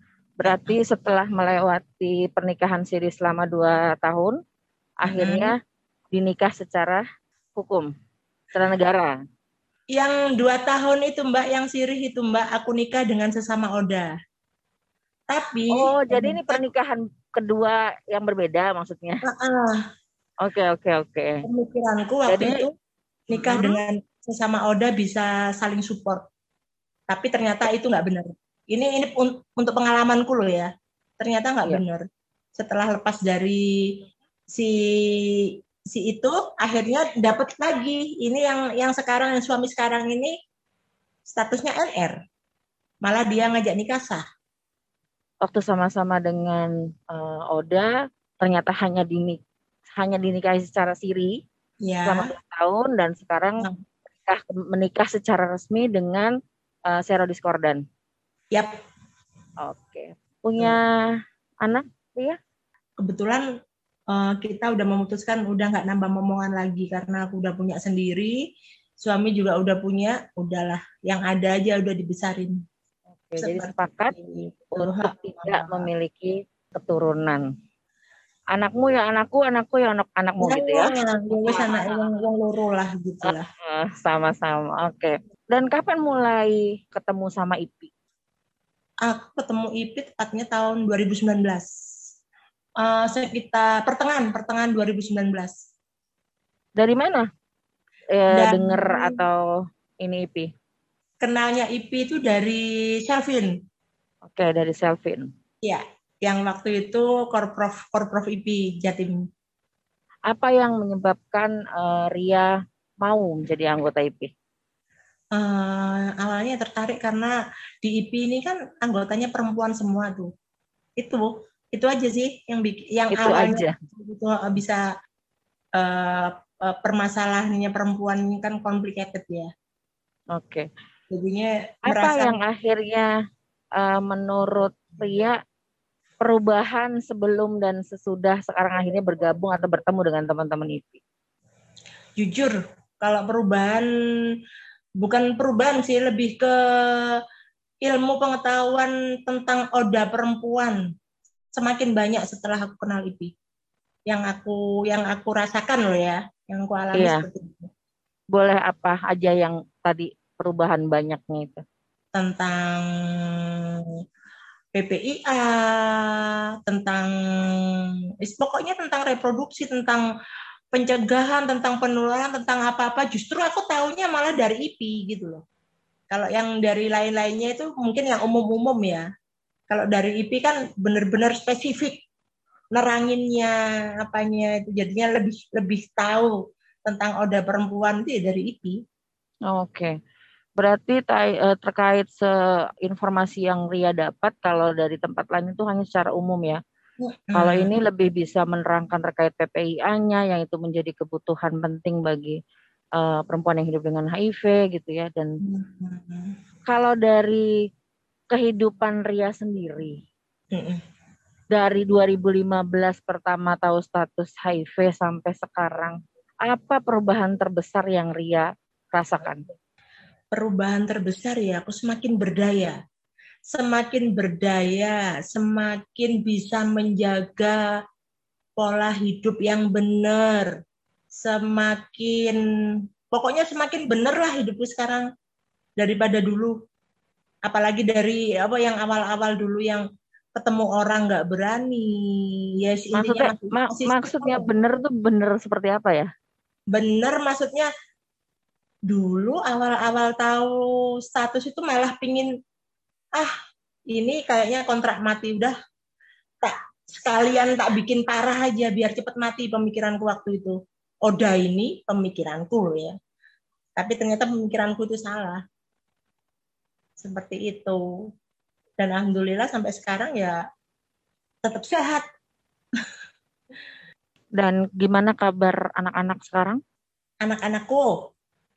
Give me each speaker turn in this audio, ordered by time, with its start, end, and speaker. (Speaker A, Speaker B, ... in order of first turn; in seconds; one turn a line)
Speaker A: 0.4-4.4
Speaker B: 0.4-0.7
Speaker A: 5.0-5.5
Speaker B: 5.1-5.5
Speaker A: 6.1-7.0
Speaker A: 7.5-7.9
Speaker A: 8.5-9.1
Speaker B: 9.9-14.1
Speaker B: 15.3-16.6
Speaker A: 15.7-19.2
Speaker B: 19.2-19.8
Speaker A: 20.4-21.4
Speaker B: 21.5-22.7
Speaker A: 22.3-22.6
Speaker B: 23.3-26.2
Speaker A: 23.3-23.8
Speaker B: 27.1-32.0
Speaker B: 32.5-33.9
Speaker B: 34.5-40.3
Speaker B: 41.3-42.2
Speaker B: 43.0-44.2
Speaker A: 45.4-49.4
Speaker A: 50.0-51.4
Speaker B: 51.8-52.3
Speaker A: 52.0-53.7
Speaker A: 54.2-56.3
Speaker A: 56.9-57.8
Speaker A: 59.6-61.0
Speaker A: 61.6-62.4
Speaker B: 63.0-63.4
Speaker B: 64.1-68.4
Speaker B: 69.0-72.6
Speaker A: 73.3-74.1
Speaker B: 73.4-75.9
Speaker A: 74.8-77.4
Speaker A: 78.5-82.1
Speaker B: 80.4-83.5
Speaker A: 83.3-87.9
Speaker B: 89.0-91.7
Speaker B: 92.8-95.6
Speaker A: 96.8-97.3
Speaker A: 98.1-99.4
Speaker B: 98.3-99.2
Speaker A: 100.0-100.5
Speaker B: 101.2-103.5
Speaker A: 104.3-105.3
Speaker B: 105.6-109.1
Speaker A: 110.3-112.5
Speaker A: 113.0-114.3
Speaker B: 115.3-120.3
Speaker B: 121.0-124.8
Speaker A: 123.1-123.7
Speaker B: 125.8-129.5
Speaker A: 130.3-130.7
Speaker B: 131.1-132.4
Speaker A: 131.9-133.1
Speaker A: 133.8-135.4
Speaker A: 136.2-141.0
Speaker B: 142.2-143.9
Speaker B: 145.0-147.2
Speaker B: 147.8-150.8
Speaker B: 151.6-153.3
Speaker B: 154.1-157.7
Speaker A: 156.9-157.2
Speaker A: 158.3-161.6
Speaker B: 162.1-163.8
Speaker B: 164.8-167.1
Speaker B: 168.2-170.1
Speaker B: 170.7-175.4
Speaker B: 176.1-179.1
Speaker B: 179.7-182.0
Speaker B: 182.7-186.3
Speaker B: 186.9-188.8
Speaker A: 189.5-189.9
Speaker A: 190.6-192.3
Speaker A: 192.8-196.6
Speaker B: 197.0-197.7
Speaker A: 197.3-202.4
Speaker A: 203.0-205.4
Speaker B: 205.4-206.4
Speaker A: 206.7-207.5
Speaker A: 208.3-210.0
Speaker B: 210.5-210.8
Speaker A: 211.5-219.4
Speaker B: 220.3-222.8
Speaker B: 223.5-227.7
Speaker B: 228.6-230.5
Speaker B: 231.1-232.4
Speaker B: 233.1-235.1
Speaker B: 235.8-236.5
Speaker B: 237.5-241.9
Speaker B: 242.6-244.5
Speaker A: 242.9-246.1
Speaker B: 246.7-247.7
Speaker B: 248.9-252.3
Speaker B: 253.9-255.5
Speaker B: 256.4-263.0
Speaker B: 263.8-265.4
Speaker B: 267.0-267.8
Speaker B: 268.8-270.4
Speaker B: 271.4-272.1
Speaker A: 274.4-276.6
Speaker B: 277.2-277.9